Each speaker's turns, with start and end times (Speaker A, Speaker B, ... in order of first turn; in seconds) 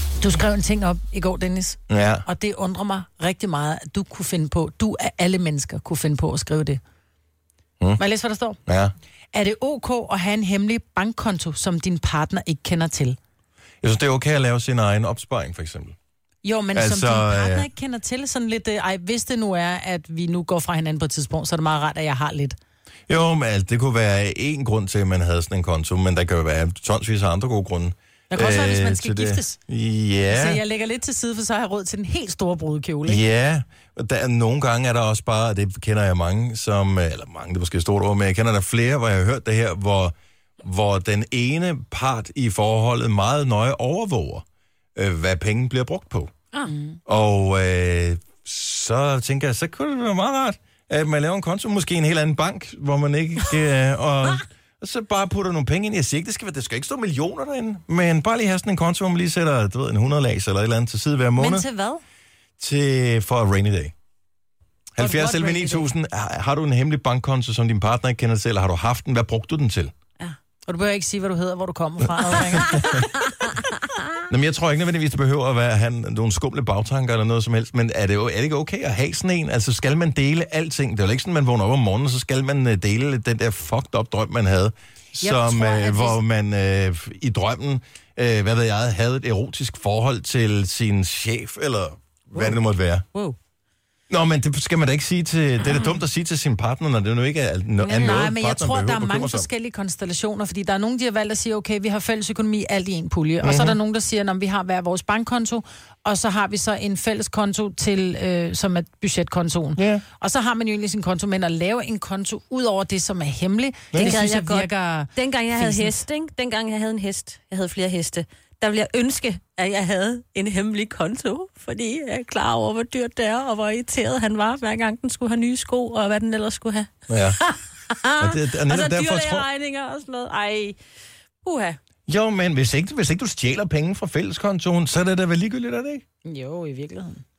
Speaker A: 0.2-6.8, 8.0-8.6, 9.3-13.2, 16.4-22.6, 28.3-29.6, 30.3-33.2, 46.7-47.0, 61.4-62.0, 65.0-65.9, 70.7-73.0, 85.2-86.2, 97.8-116.0, 136.2-137.2
Speaker B: 1.9-2.2, 8.7-8.9, 13.8-15.9, 16.7-17.7, 23.1-30.6, 33.0-44.4, 45.0-46.3, 47.1-61.7, 62.6-63.9, 65.0-69.9, 72.6-73.0, 74.3-93.1, 94.1-99.5, 103.4-103.8, 109.8-110.0, 113.9-114.2, 127.1-127.4, 128.2-129.5, 132.1-136.0
Speaker C: 113.9-126.9, 127.5-130.8, 131.4-131.8